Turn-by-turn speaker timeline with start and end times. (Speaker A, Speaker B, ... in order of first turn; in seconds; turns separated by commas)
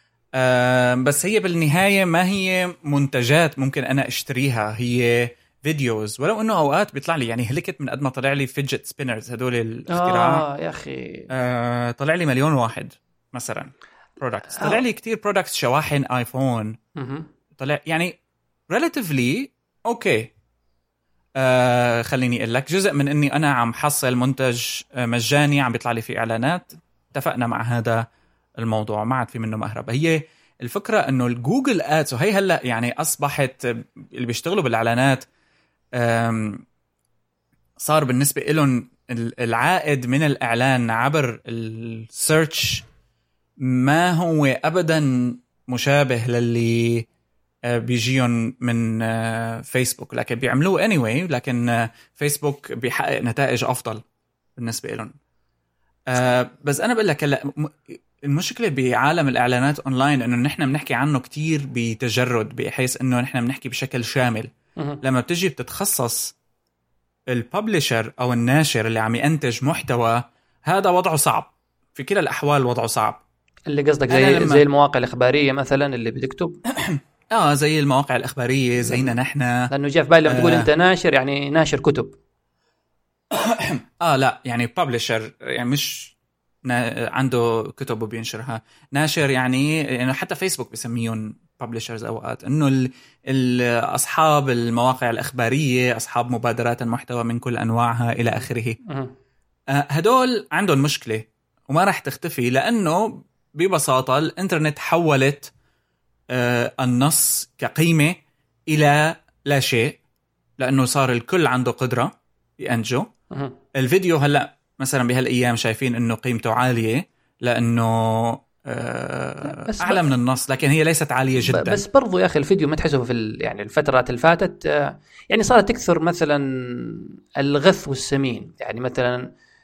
Speaker A: 0.3-10.4, Speaker B: 9.9-11.3, Speaker A: 11.3-16.8, Speaker B: 17.0-17.3, Speaker A: 17.6-18.2, Speaker A: 18.7-20.3, Speaker A: 21.4-28.1, Speaker A: 28.6-35.2, Speaker A: 36.0-36.6, Speaker A: 37.8-42.9, Speaker A: 43.6-47.1, Speaker A: 47.7-54.0, Speaker A: 54.6-55.1, Speaker A: 56.1-66.3, Speaker A: 67.3-73.2, Speaker B: 73.7-76.6, Speaker A: 74.1-74.6, Speaker A: 76.8-79.7, Speaker B: 79.7-82.2, Speaker A: 80.3-80.7, Speaker A: 83.3-86.1, Speaker A: 86.7-98.8, Speaker B: 98.9-99.1, Speaker A: 99.7-105.5, Speaker A: 106.3-108.2, Speaker A: 108.7-110.0, Speaker A: 110.6-113.1, Speaker B: 113.3-113.6, Speaker A: 113.7-121.8, Speaker B: 119.5-120.1, Speaker B: 121.4-129.3